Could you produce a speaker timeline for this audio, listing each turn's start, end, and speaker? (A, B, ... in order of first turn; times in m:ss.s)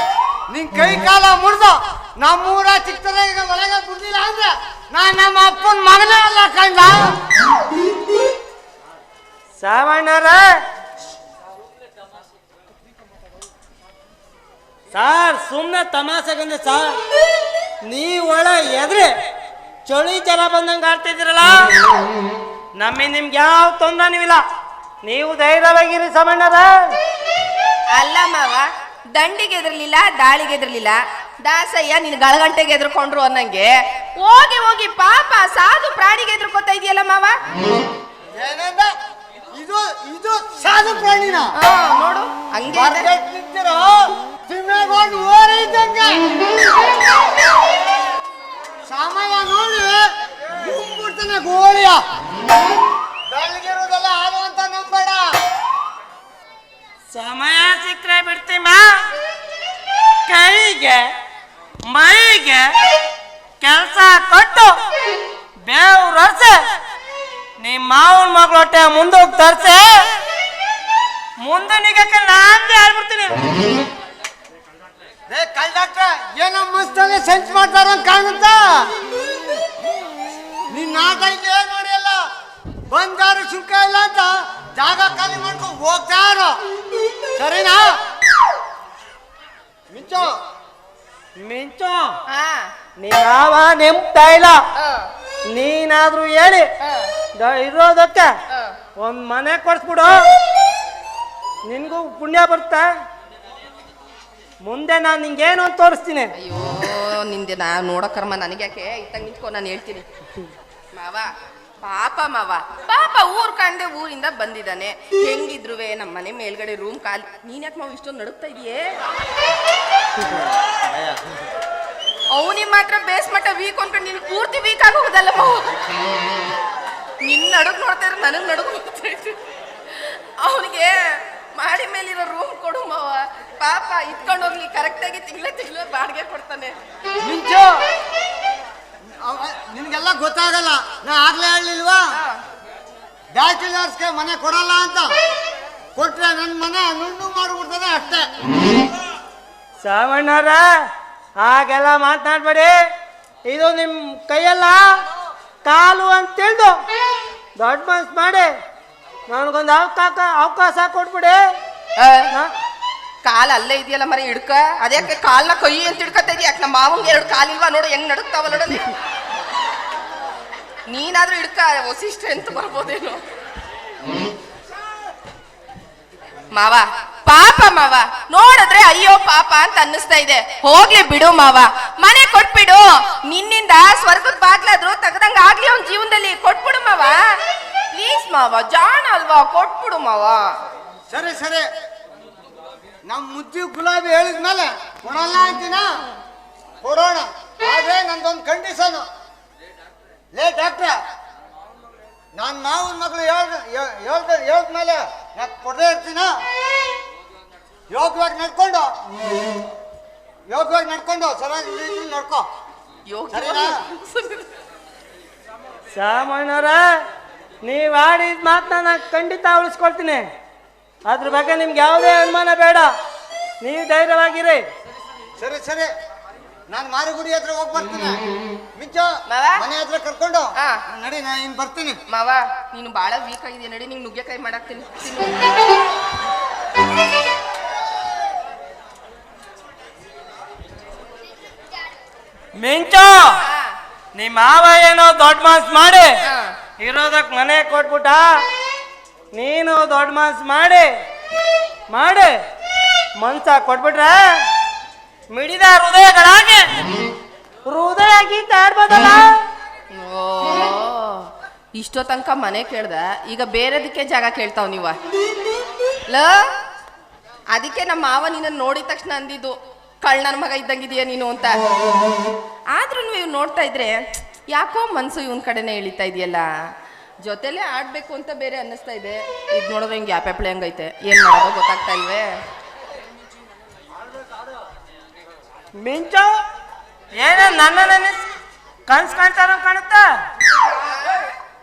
0:00.5-0:07.2 A
0:09.6-0:10.4 B
0:14.9-0:16.9 B
0:17.8-0:19.1 B
0:19.8-0:21.7 B
0:22.8-0:24.4 B
0:25.0-0:26.7 B
0:27.9-0:37.4 C
0:38.3-0:38.9 A
0:39.5-0:41.5 A
0:41.6-0:43.1 C
0:42.7-0:46.2 A
0:48.8-0:52.0 A
0:53.3-0:55.3 A
0:57.1-0:58.9 B
1:00.2-1:01.1 B
1:01.8-1:02.6 B
1:03.6-1:04.7 B
1:05.6-1:06.6 B
1:07.6-1:10.0 B
1:11.4-1:13.4 B
1:15.3-1:18.9 A
1:20.7-1:22.2 A
1:22.9-1:26.6 A
1:27.4-1:28.0 A
1:29.9-1:30.3 A
1:31.4-1:32.2 B
1:32.3-1:32.7 C
1:33.0-1:34.6 B
1:34.8-1:35.1 C
1:35.5-1:36.7 B
1:36.8-1:37.1 C
1:37.3-1:38.3 B
1:38.5-1:38.8 C
1:39.0-1:40.2 B
1:41.6-1:42.9 B
1:44.6-1:46.3 B
1:46.4-1:50.0 C
1:50.9-1:51.3 C
1:51.8-1:59.0 C
2:02.3-2:05.8 C
2:07.2-2:16.8 C
2:17.2-2:17.8 A
2:19.2-2:22.0 A
2:23.3-2:25.2 A
2:26.0-2:28.3 A
2:29.8-2:30.6 B
2:31.4-2:32.7 B
2:33.5-2:35.0 B
2:35.6-2:36.7 B
2:37.6-2:38.5 B
2:39.3-2:41.4 B
2:42.0-2:42.3 C
2:43.2-2:48.9 C
2:50.9-2:53.2 C
2:56.5-3:07.4 C
3:07.9-3:10.5 C
3:11.1-3:11.7 A
3:13.0-3:16.0 A
3:16.8-3:19.0 A
3:20.3-3:21.0 A
3:22.3-3:26.3 A
3:27.9-3:29.0 A
3:30.5-3:32.4 A
3:33.1-3:34.4 C
3:33.3-3:33.8 A
3:35.9-3:36.8 B
3:37.6-3:40.2 B
3:41.0-3:42.9 B
3:43.6-3:44.6 B
3:45.4-3:45.9 A
3:46.7-3:48.2 A
3:48.8-3:52.0 A
3:49.3-3:49.6 C
3:50.6-3:50.8 C
3:52.1-3:55.6 C
4:02.5-4:03.4 B
4:03.3-4:03.8 C
4:04.1-4:06.1 B
4:06.2-4:06.6 C
4:06.8-4:08.3 B
4:09.3-4:10.9 B
4:11.9-4:12.3 B
4:13.2-4:14.3 B
4:15.3-4:16.6 B
4:17.7-4:19.3 B
4:19.9-4:25.0 C
4:26.1-4:26.4 C
4:27.5-4:31.6 C
4:32.7-4:36.5 C
4:37.2-4:42.4 C
4:45.8-4:46.3 B
4:47.2-4:48.2 B
4:48.9-4:50.1 B
4:50.7-4:51.3 C